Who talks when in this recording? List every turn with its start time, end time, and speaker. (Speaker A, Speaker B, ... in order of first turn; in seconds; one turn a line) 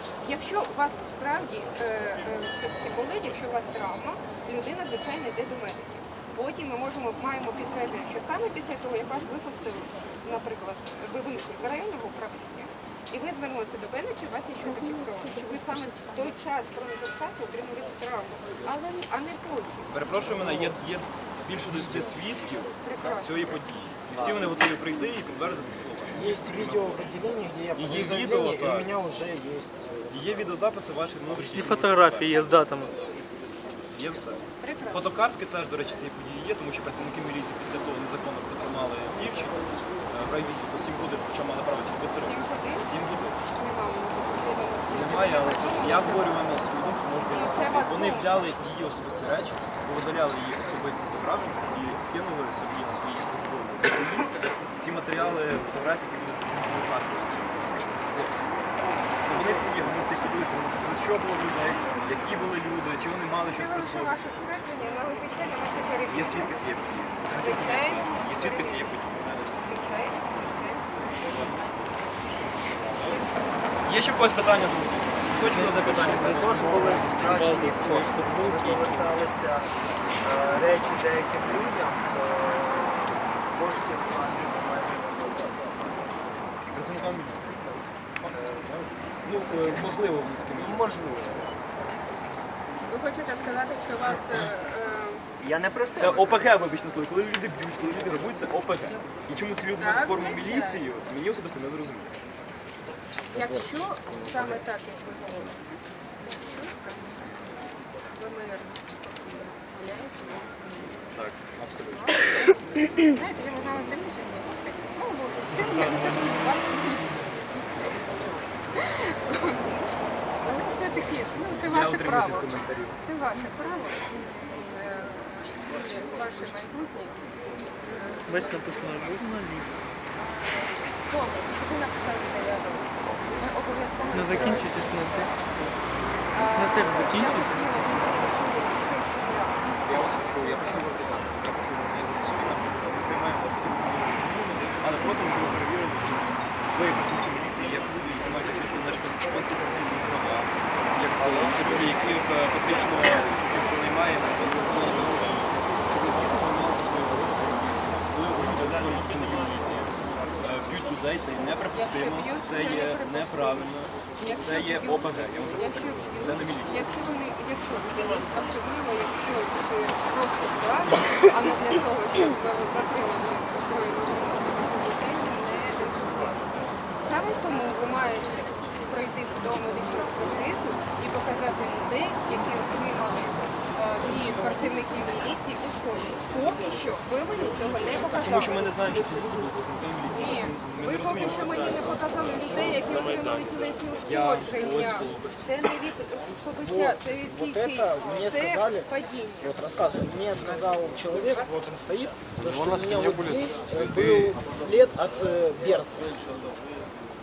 Speaker A: 0.2-5.8
Speaker A: 6.3-19.9
Speaker B: 19.9-27.0
Speaker A: 22.8-23.3
Speaker C: 24.1-24.4
Speaker D: 26.1-30.1
Speaker B: 27.8-28.9
Speaker B: 30.1-32.4
Speaker E: 31.5-33.0
Speaker B: 33.9-39.6
Speaker A: 34.6-35.0
Speaker B: 40.1-43.4
Speaker A: 42.2-42.9
Speaker A: 43.5-46.4
Speaker B: 44.9-58.7
Speaker A: 47.3-48.4
Speaker B: 59.2-64.2
Speaker A: 63.4-66.5
Speaker B: 66.1-69.5
Speaker A: 67.4-68.9
Speaker A: 69.5-71.6
Speaker A: 72.8-73.3
Speaker B: 73.8-76.7
Speaker E: 75.5-79.1
Speaker C: 75.9-79.7
Speaker C: 80.2-86.1
Speaker B: 86.7-88.3
Speaker C: 88.3-88.9
Speaker B: 89.2-90.9
Speaker C: 89.7-90.0
Speaker C: 90.5-91.6
Speaker A: 92.9-95.2
Speaker C: 95.4-96.4
Speaker B: 96.0-102.1
Speaker A: 99.7-100.8
Speaker A: 103.3-107.5
Speaker D: 103.3-103.7
Speaker A: 108.1-111.1
Speaker B: 111.1-112.1
Speaker A: 111.8-119.6
Speaker A: 120.4-127.2
Speaker B: 121.6-123.0
Speaker A: 127.8-128.6
Speaker E: 128.3-129.7
Speaker A: 130.1-134.8
Speaker E: 134.1-135.3
Speaker A: 136.3-139.7
Speaker E: 136.5-137.8
Speaker B: 139.8-159.9
Speaker B: 160.4-166.9
Speaker A: 161.7-163.7
Speaker A: 164.2-176.4
Speaker A: 177.0-188.6
Speaker B: 188.1-191.8
Speaker A: 190.1-199.5
Speaker B: 194.1-195.4
Speaker D: 196.6-198.9
Speaker D: 199.4-206.2